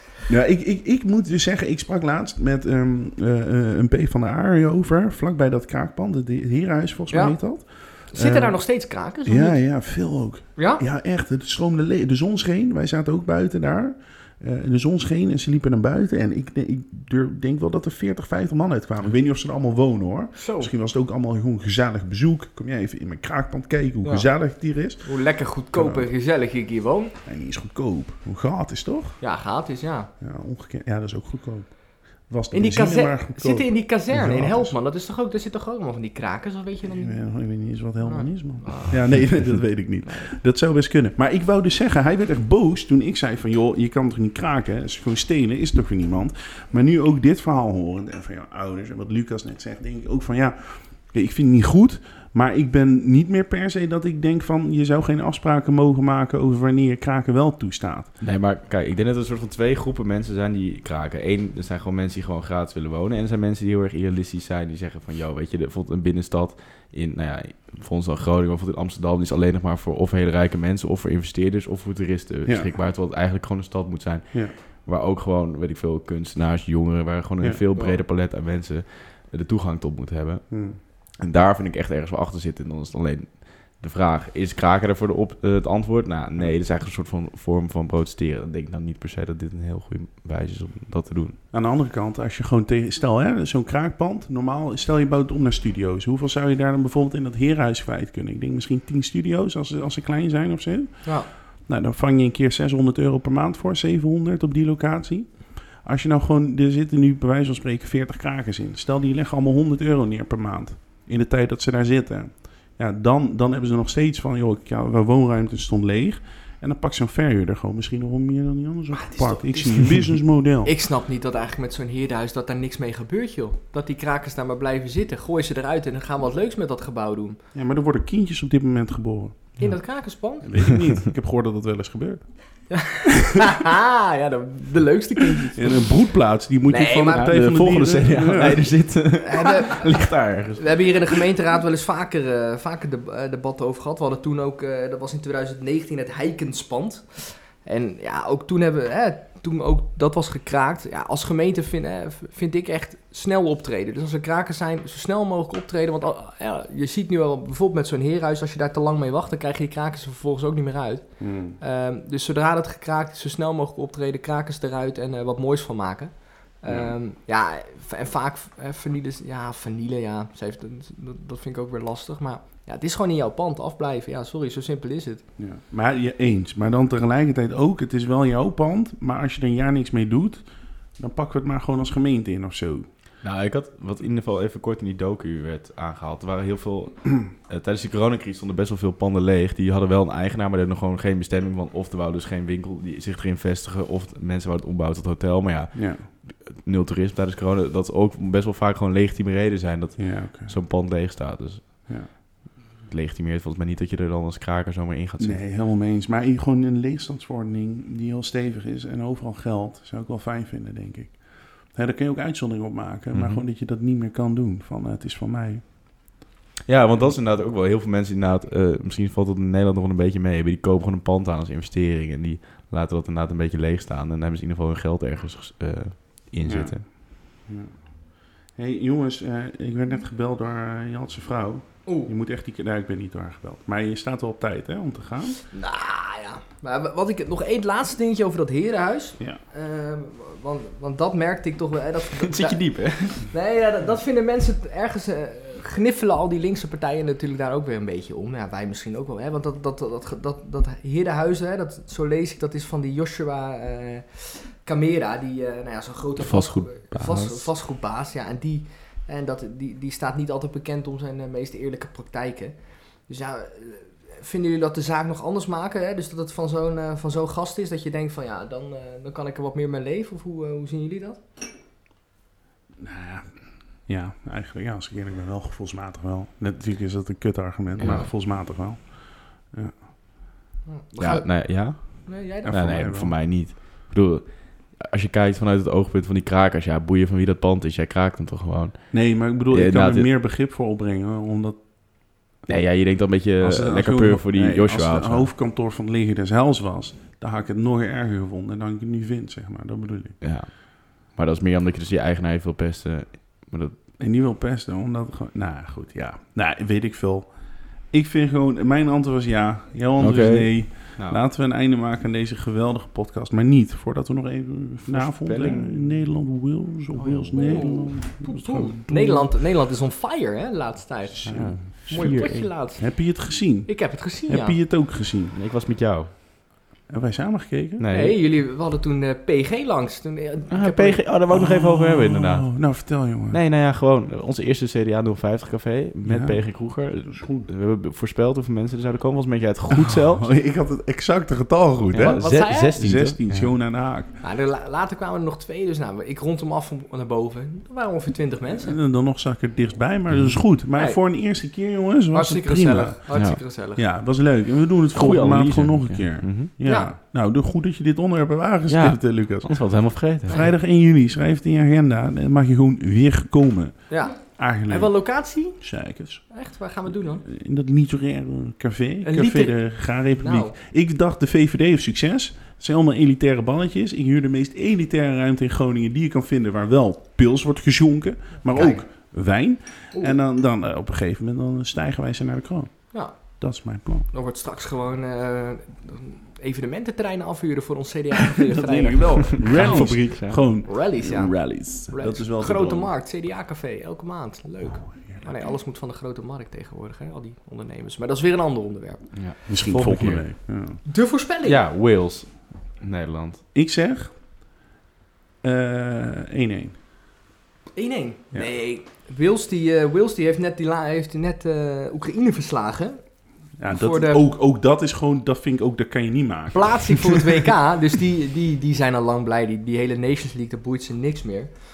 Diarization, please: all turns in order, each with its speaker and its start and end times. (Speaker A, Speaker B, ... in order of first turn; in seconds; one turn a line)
Speaker A: 0.3-8.6
Speaker B: 7.1-7.4
Speaker B: 8.1-9.6
Speaker A: 9.2-25.1
Speaker B: 10.6-10.8
Speaker B: 20.4-20.7
Speaker B: 25.0-27.1
Speaker A: 25.7-26.1
Speaker A: 27.2-29.2
Speaker B: 29.2-30.1
Speaker A: 30.2-34.7
Speaker B: 32.5-37.2
Speaker A: 36.9-58.1
Speaker B: 38.0-39.2
Speaker B: 40.0-40.3
Speaker C: 58.2-91.4
Speaker A: 80.5-80.8
Speaker A: 91.5-120.7
Speaker B: 101.0-101.3
Speaker B: 118.9-127.4
Speaker A: 127.5-129.6
Speaker B: 129.6-130.5
Speaker A: 130.4-132.2
Speaker B: 132.7-135.8
Speaker A: 135.5-138.7
Speaker B: 136.7-137.3
Speaker C: 137.1-141.2
Speaker B: 139.2-161.1
Speaker A: 161.2-161.6
Speaker B: 161.6-175.2
Speaker A: 166.7-166.9
Speaker A: 175.4-180.4
Speaker A: 181.0-182.9
Speaker C: 183.2-202.1
Speaker A: 195.7-196.0
Speaker A: 200.0-200.5
Speaker C: 202.9-205.4
Speaker A: 205.2-215.6
Speaker C: 213.1-213.4
Speaker C: 216.7-226.8
Speaker A: 226.4-227.7
Speaker A: 228.6-235.4
Speaker B: 231.8-232.1
Speaker B: 235.5-242.6
Speaker C: 242.2-243.2
Speaker B: 243.2-262.6
Speaker C: 256.2-257.5
Speaker B: 263.1-271.2
Speaker A: 272.8-273.3
Speaker A: 273.9-279.0
Speaker C: 277.8-278.1
Speaker A: 279.5-279.8
Speaker B: 280.7-282.6
Speaker C: 281.0-290.1
Speaker A: 282.5-283.1
Speaker A: 288.9-291.6
Speaker C: 292.5-295.3
Speaker A: 293.4-300.2
Speaker C: 300.2-303.8
Speaker A: 304.0-307.3
Speaker A: 307.9-319.3
Speaker C: 310.0-311.2
Speaker C: 314.9-316.0
Speaker C: 316.9-317.7
Speaker B: 317.3-322.9
Speaker A: 321.2-322.1
Speaker C: 321.2-322.5
Speaker A: 322.8-325.4
Speaker B: 323.7-324.6
Speaker C: 325.3-326.1
Speaker A: 326.9-327.8
Speaker C: 327.8-328.2
Speaker B: 327.9-331.0
Speaker C: 330.5-332.6
Speaker A: 331.3-333.4
Speaker C: 333.3-340.3
Speaker A: 336.0-336.4
Speaker A: 337.1-337.4
Speaker A: 339.7-344.1
Speaker C: 341.9-343.5
Speaker B: 342.0-342.8
Speaker B: 344.2-348.8
Speaker A: 348.5-359.5
Speaker C: 350.1-350.4
Speaker B: 352.1-353.8
Speaker C: 353.1-353.4
Speaker C: 354.9-356.5
Speaker B: 356.6-356.9
Speaker C: 358.7-360.4
Speaker A: 360.3-366.2
Speaker B: 363.9-365.6
Speaker B: 366.3-367.2
Speaker A: 367.2-384.1
Speaker B: 369.0-370.5
Speaker B: 378.5-378.8
Speaker B: 384.1-390.0
Speaker A: 388.4-392.9
Speaker C: 389.3-390.5
Speaker B: 390.6-399.0
Speaker C: 399.1-400.2
Speaker A: 399.5-400.8
Speaker B: 400.9-401.6
Speaker C: 401.4-403.4
Speaker A: 403.5-404.1
Speaker A: 405.4-406.8
Speaker B: 407.7-413.0
Speaker A: 413.6-417.5
Speaker B: 413.7-414.3
Speaker B: 416.5-421.5